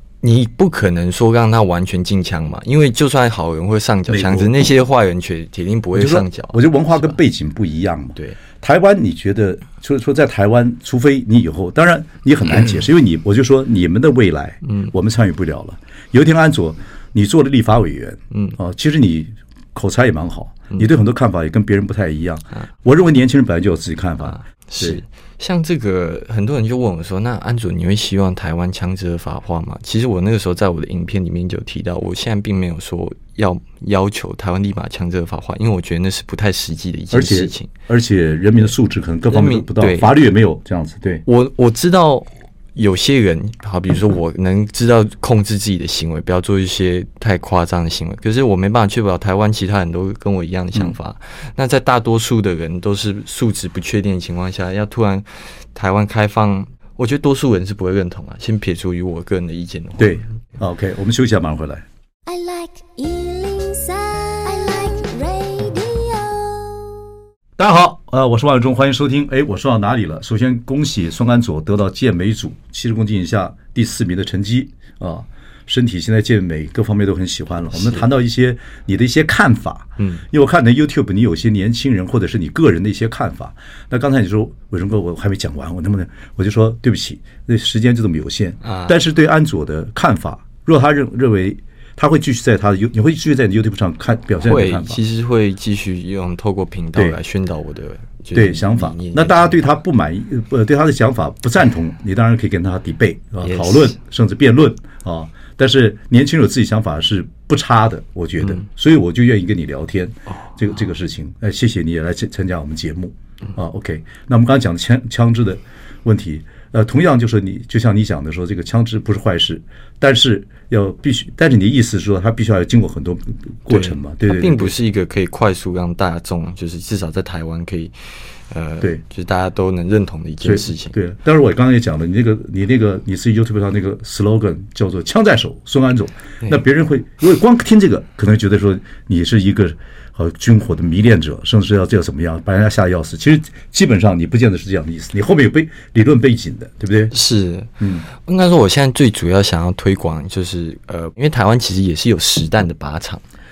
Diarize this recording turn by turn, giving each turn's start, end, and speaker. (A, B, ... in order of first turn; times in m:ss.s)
0:00.2-0:07.2 A
0:04.1-0:04.5 B
0:05.9-0:25.0 B
0:08.2-0:08.4 A
0:14.6-0:14.9 A
0:18.3-0:18.6 A
0:24.2-0:37.7 A
0:37.1-0:41.2 B
0:39.3-0:40.1 A
0:41.3-1:00.3 A
1:00.0-1:01.8 B
1:02.3-1:07.0 C
1:07.6-1:35.0 B
1:17.7-1:18.1 A
1:20.0-1:20.2 A
1:28.6-1:29.0 A
1:34.4-1:39.7 A
1:38.3-2:04.7 B
1:43.4-1:44.0 A
1:48.4-1:48.7 A
1:50.3-1:50.6 A
2:03.7-2:11.0 A
2:10.4-2:27.1 B
2:27.1-2:33.2 A
2:27.8-2:28.1 B